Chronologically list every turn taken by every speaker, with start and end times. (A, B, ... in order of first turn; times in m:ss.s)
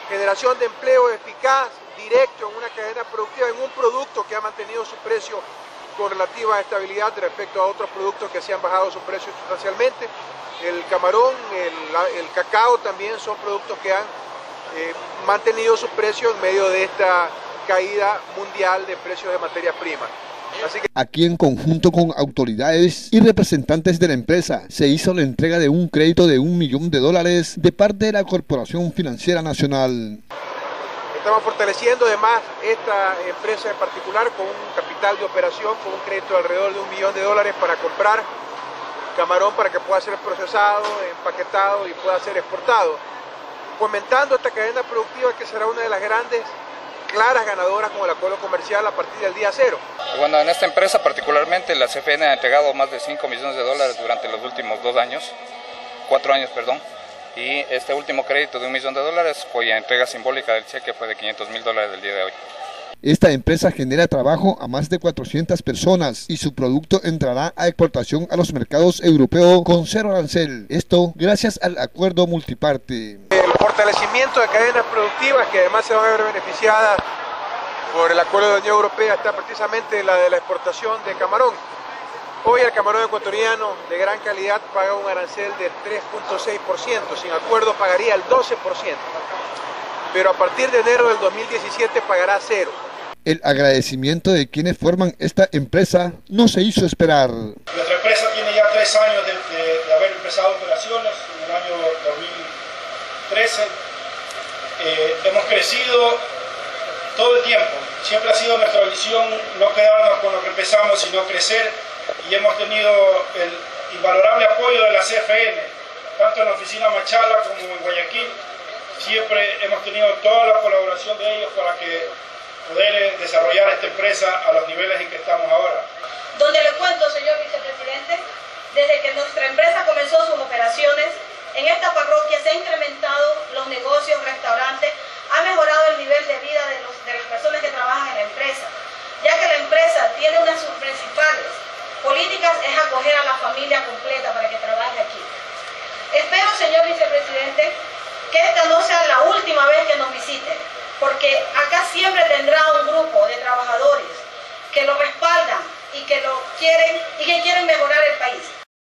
0:00.1-0:05.4 A
0:06.0-0:14.1 A
0:14.7-0:20.9 A
0:21.0-0:30.2 B
0:31.1-0:38.3 A
0:39.2-0:43.0 A
0:43.8-0:46.5 A
0:47.1-0:49.8 A
0:50.1-0:55.3 C
0:56.1-0:56.8 C
0:57.4-1:02.4 C
1:03.0-1:13.3 B
1:13.3-1:17.0 A
1:17.9-1:21.6 A
1:22.4-1:29.2 A
1:30.1-1:32.8 A
1:33.2-1:37.6 B
1:37.7-1:42.5 D
1:43.3-1:43.7 D
1:44.8-1:46.2 D
1:47.1-1:58.3 D
1:59.0-2:02.1 D
2:02.7-2:05.9 D
2:06.3-2:25.3 E
2:26.1-2:27.8 E
2:28.3-2:38.5 E